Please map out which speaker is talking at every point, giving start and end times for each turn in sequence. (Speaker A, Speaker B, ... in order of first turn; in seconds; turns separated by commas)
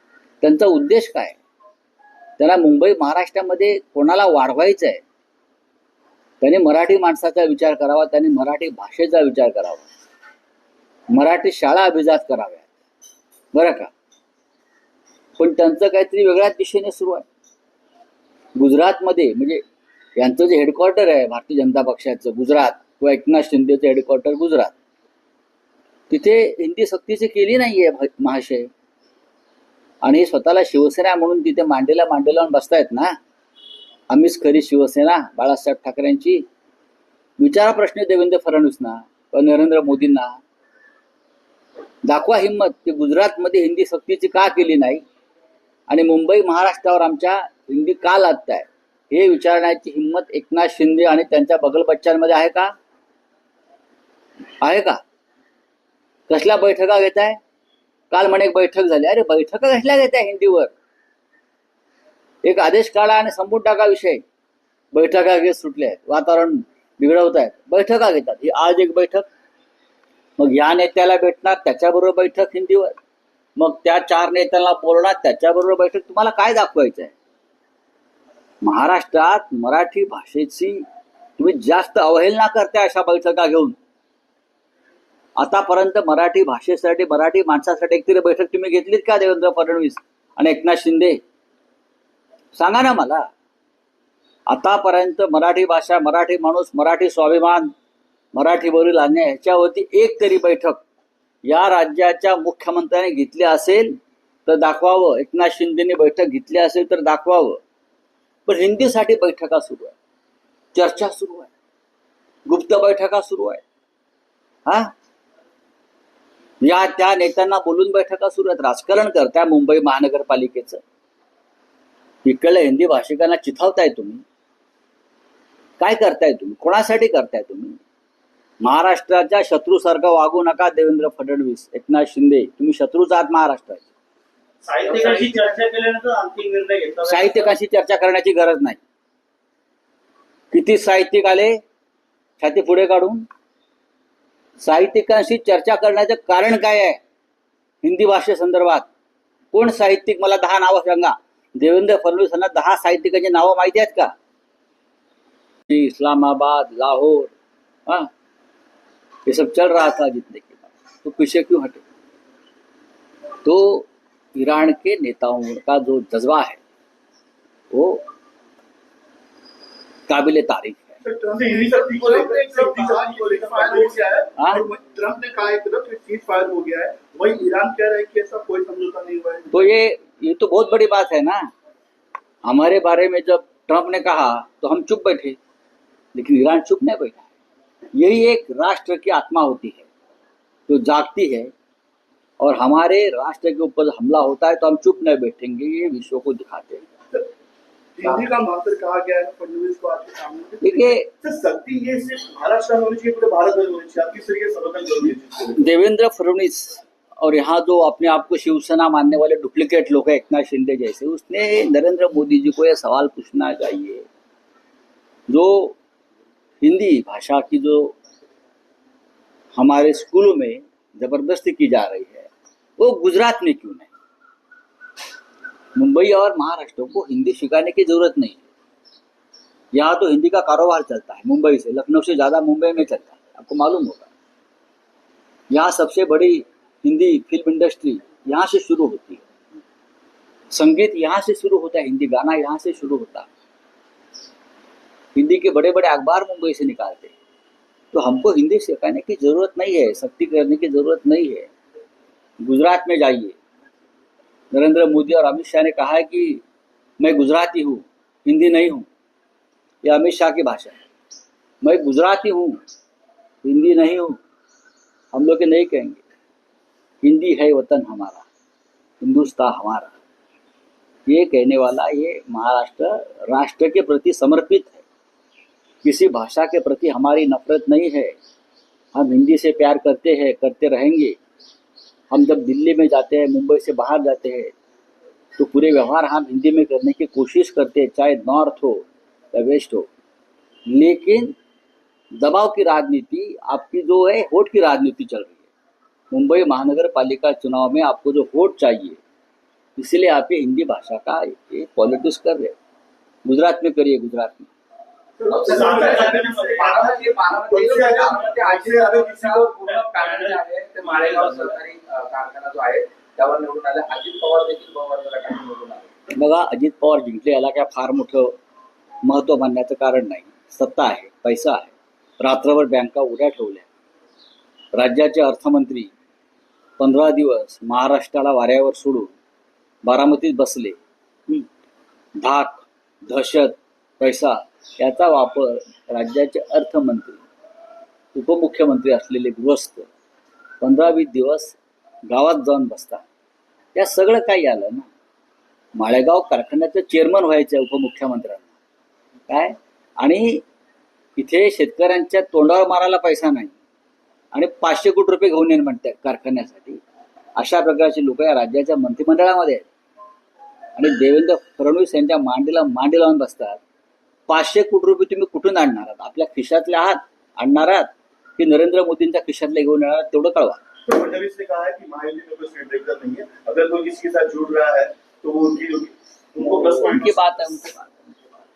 Speaker A: 0.4-1.4, Speaker A: 2.4-5.0, Speaker A: 6.4-9.9, Speaker A: 11.1-12.7, Speaker A: 13.5-13.9, Speaker A: 15.4-17.3, Speaker A: 18.6-19.6, Speaker A: 20.2-24.7, Speaker A: 26.1-28.7, Speaker A: 30.0-33.2, Speaker A: 34.1-36.4, Speaker A: 37.4-40.4, Speaker A: 42.0-45.0, Speaker A: 45.9-52.7, Speaker A: 54.6-55.0, Speaker A: 56.3-57.4, Speaker A: 58.1-60.7, Speaker A: 62.4-64.2, Speaker A: 64.9-69.3, Speaker A: 70.4-73.0, Speaker A: 73.6-77.1, Speaker A: 78.6-80.8, Speaker A: 81.4-83.8, Speaker A: 85.4-91.2, Speaker A: 92.6-93.3, Speaker A: 94.5-97.7, Speaker A: 98.3-100.8, Speaker A: 101.5-104.0, Speaker A: 104.5-107.6, Speaker A: 108.5-110.0, Speaker A: 110.7-111.5, Speaker A: 112.5-113.6, Speaker A: 114.7-114.9, Speaker A: 116.6-120.8, Speaker A: 122.2-124.2, Speaker A: 125.8-127.8, Speaker A: 128.6-133.9, Speaker B: 134.7-137.5, Speaker C: 135.0-135.4, Speaker A: 137.0-138.8, Speaker A: 140.5-141.6, Speaker A: 142.4-143.2, Speaker A: 144.6-147.0, Speaker A: 147.8-148.9, Speaker A: 149.5-154.1, Speaker A: 155.7-157.3, Speaker A: 159.3-161.8, Speaker A: 163.4-166.6, Speaker A: 167.7-168.0, Speaker A: 170.1-171.0, Speaker D: 171.1-174.2, Speaker E: 171.2-179.7, Speaker A: 174.4-174.6, Speaker A: 179.5-181.5, Speaker A: 182.4-185.4, Speaker A: 186.2-187.3, Speaker A: 187.9-189.9, Speaker A: 190.7-191.5, Speaker A: 192.4-196.9, Speaker E: 198.0-201.0, Speaker A: 200.6-201.1, Speaker D: 201.2-205.6, Speaker A: 205.6-214.1, Speaker A: 215.3-215.8, Speaker A: 216.6-217.9, Speaker A: 219.6-223.9, Speaker A: 225.8-228.4, Speaker A: 229.7-234.1, Speaker A: 235.5-239.2, Speaker A: 240.5-243.3, Speaker A: 245.2-247.1, Speaker A: 247.9-251.5, Speaker A: 252.4-253.4, Speaker A: 254.5-256.4, Speaker A: 257.0-258.9, Speaker A: 259.8-260.8, Speaker A: 261.6-262.6, Speaker A: 263.4-264.2, Speaker A: 265.1-266.0, Speaker A: 267.0-268.3, Speaker A: 269.0-270.0, Speaker A: 271.1-274.8, Speaker A: 275.8-278.2, Speaker A: 278.9-281.2, Speaker A: 282.1-284.5, Speaker A: 285.4-289.9, Speaker A: 290.7-291.3, Speaker A: 292.2-295.4, Speaker A: 296.1-299.0, Speaker A: 299.8-302.5, Speaker A: 303.2-304.5, Speaker E: 305.3-306.8, Speaker C: 305.3-315.9, Speaker B: 305.4-307.0, Speaker D: 306.3-309.5, Speaker E: 307.5-308.2, Speaker B: 308.0-308.5, Speaker B: 309.6-311.6, Speaker A: 316.1-318.3, Speaker A: 319.1-323.7, Speaker A: 324.7-325.9, Speaker A: 326.8-329.1, Speaker A: 329.9-330.8, Speaker A: 332.2-337.2, Speaker A: 338.1-339.9, Speaker A: 340.6-341.6, Speaker A: 342.1-343.0, Speaker A: 343.8-344.9, Speaker A: 345.8-348.5, Speaker A: 349.3-350.4, Speaker A: 351.2-353.5, Speaker A: 354.3-356.8, Speaker A: 357.4-359.7, Speaker A: 360.8-363.6, Speaker A: 364.3-370.6, Speaker D: 370.9-377.2, Speaker A: 376.6-378.3